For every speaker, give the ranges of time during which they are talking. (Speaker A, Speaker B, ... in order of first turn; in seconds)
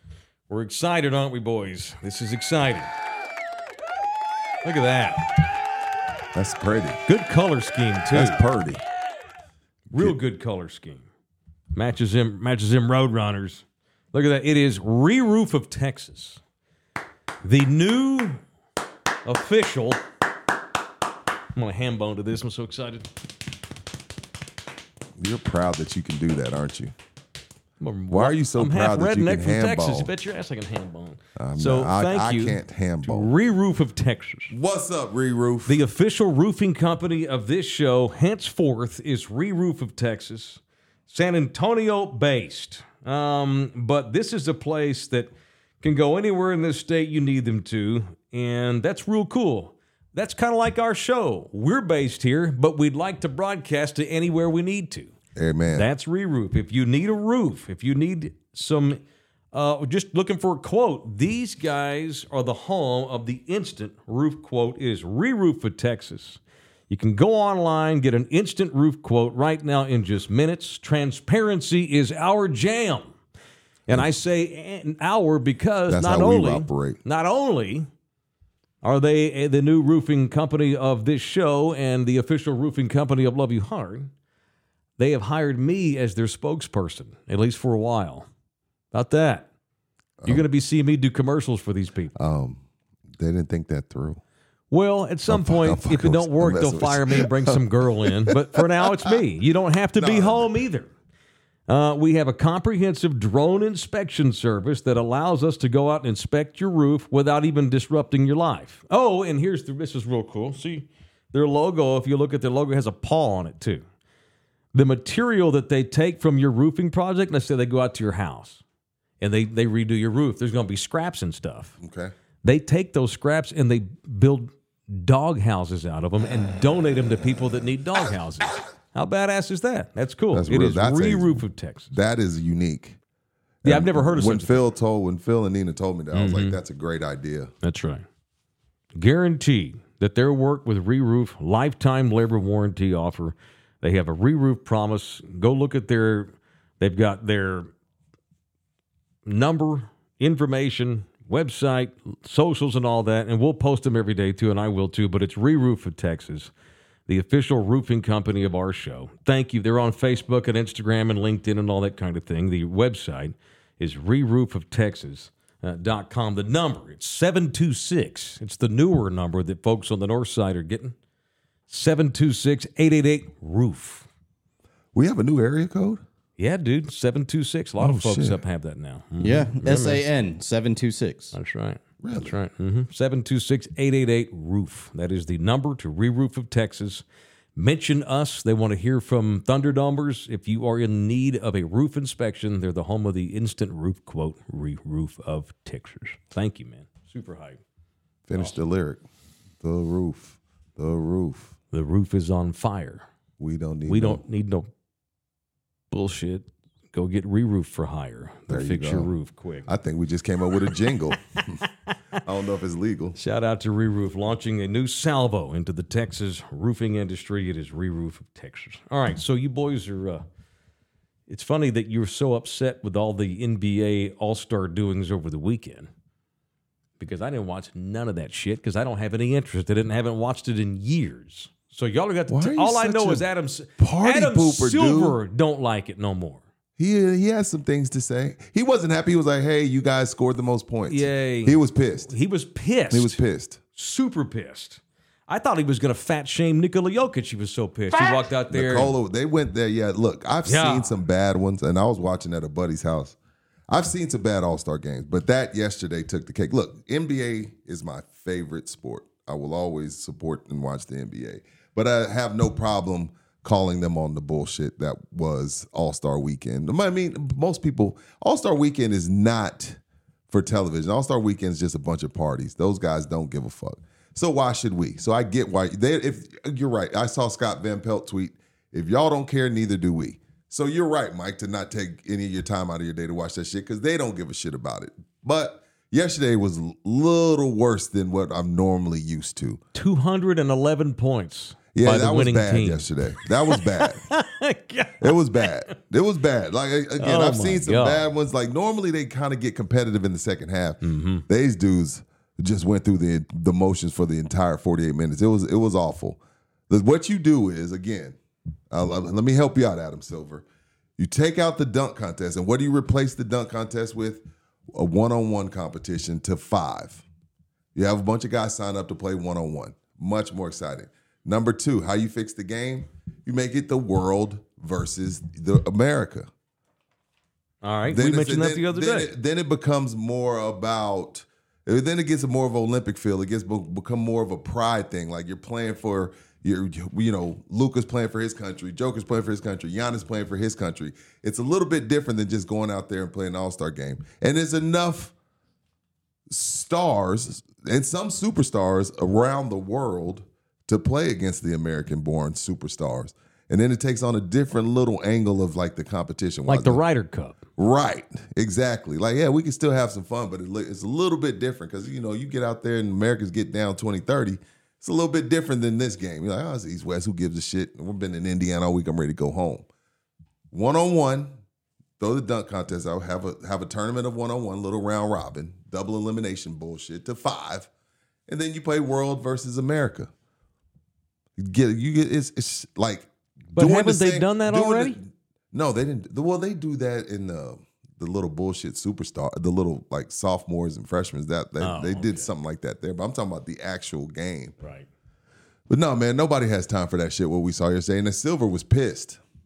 Speaker A: 0.5-2.9, 4.6-5.3, 7.0-8.4, 9.9-11.0, 11.7-16.4, 17.4-18.4, 19.2-20.0, 21.5-23.1, 27.8-34.5, 35.6-45.3, 45.8-55.1, 55.7-59.0, 59.5-73.1, 73.9-77.9, 78.8-84.1, 85.0-88.3, 88.9-89.5, 90.2-92.1, 94.7-100.9, 101.7-113.8, 114.7-118.6, 119.2-121.8, 122.4-131.9, 133.6-134.7, 136.1-136.6, 137.6-138.0, 138.9-147.7, 149.2-156.5, 157.1-170.9, 171.7-174.1, 176.4-180.0, 181.3-187.0, 187.6-197.6, 201.7-203.1, 203.8-204.7, 205.9-209.7, 213.1-220.2, 221.3-225.9, 227.0-236.4, 240.9-243.2, 243.7-248.9, 250.4-250.9, 289.7-295.7, 297.0-298.1, 300.8-301.2, 327.6-329.1, 356.4-357.4, 383.5-385.0, 391.6-392.3, 394.6-394.9
Speaker B: 6.3-7.0, 8.1-8.8, 25.2-26.9, 28.1-30.1, 31.4-33.3, 34.5-35.8, 55.4-55.9, 75.9-77.0, 92.1-94.2, 95.3-99.2, 100.0-100.5, 121.8-122.1, 130.3-133.0, 133.6-137.5, 174.9-176.0, 177.8-178.4, 182.0-182.3, 198.3-199.0, 199.6-201.5, 203.4-204.2, 208.5-209.1, 209.6-211.6, 212.2-213.2, 232.3-233.3, 233.8-235.2, 236.8-242.1, 242.9-243.6, 248.0-253.2, 253.7-289.6, 291.7-294.1, 295.0-308.2, 308.7-310.4, 311.0-317.0, 317.7-326.3, 327.9-345.1, 346.3-356.8, 357.6-369.6, 370.5-371.3, 372.0-377.7, 378.3-380.1, 381.4-394.6, 395.7-399.2
Speaker C: 179.2-181.3